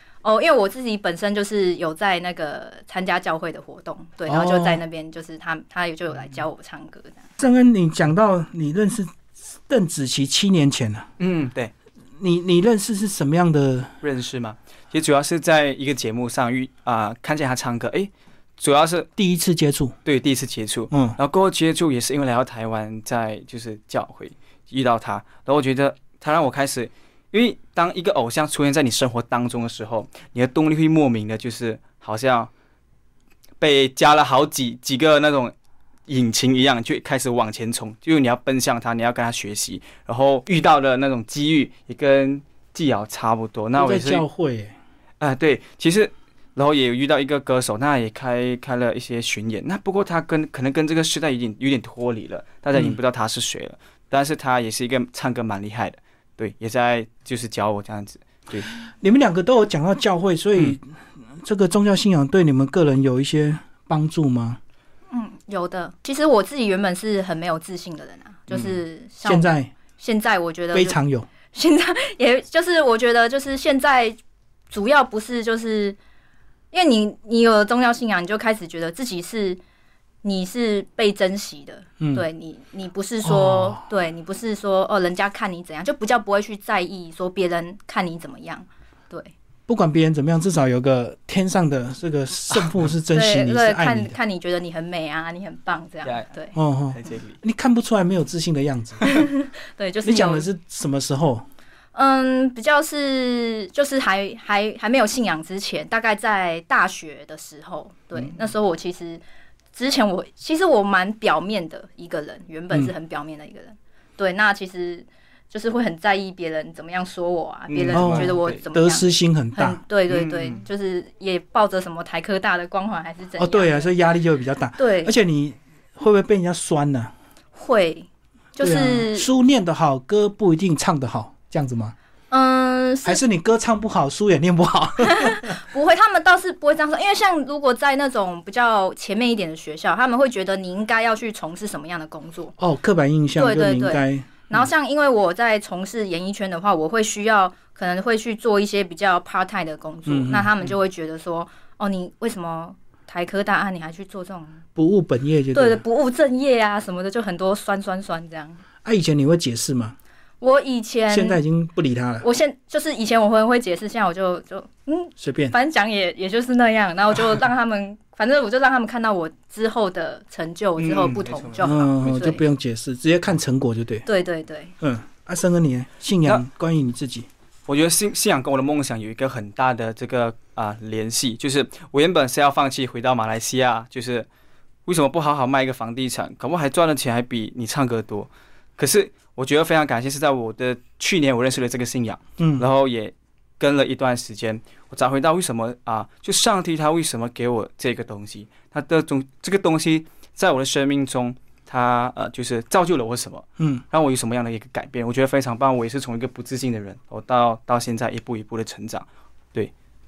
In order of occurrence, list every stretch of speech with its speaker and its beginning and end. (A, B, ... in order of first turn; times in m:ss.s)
0:00.2-0:07.2 A
0:04.3-0:04.8 B
0:07.4-0:09.2 B
0:09.7-0:11.1 B
0:11.2-0:11.7 C
0:12.2-0:13.9 B
0:14.0-0:19.1 C
0:19.2-0:20.0 B
0:20.0-0:32.5 C
0:20.9-0:21.2 B
0:33.6-0:35.5 C
0:36.1-0:44.2 C
0:43.8-0:44.8 B
0:45.2-0:58.7 C
0:59.0-1:04.6 B
1:05.1-1:11.0 A
1:09.2-1:09.7 B
1:10.7-1:11.3 B
1:11.5-1:14.2 A
1:14.7-1:16.0 A
1:16.7-1:19.6 A
1:20.2-1:29.3 A
1:22.0-1:22.2 B
1:23.2-1:23.8 B
1:29.7-1:34.2 B
1:33.1-1:36.6 A
1:36.0-1:36.3 C
1:36.5-1:39.2 B
1:36.9-1:37.4 C
1:39.1-1:40.5 A
1:40.0-1:41.5 B
1:41.9-1:49.2 A
1:49.7-2:03.9 A
1:57.7-1:58.6 C
1:57.9-1:59.8 B
2:00.1-2:00.6 C
2:03.4-2:07.1 B
2:04.8-2:05.1 A
2:07.6-2:09.3 A
2:08.6-2:12.0 B
2:12.3-2:13.2 A
2:13.0-2:15.6 B
2:15.0-2:22.6 A
2:22.6-2:24.3 B
2:23.4-2:34.6 A
2:30.1-2:30.5 B
2:34.8-2:35.8 B
2:35.5-2:38.6 A
2:38.8-2:40.0 B
2:40.4-2:41.4 A
2:41.1-2:42.3 B
2:42.2-2:52.4 A
2:45.2-2:45.6 B
2:50.8-2:52.4 C
2:51.6-2:54.1 B
2:54.1-2:54.7 A
2:54.8-2:57.3 B
2:57.7-3:04.3 C
3:04.9-3:29.7 C
3:12.4-3:12.7 B
3:23.6-3:23.8 B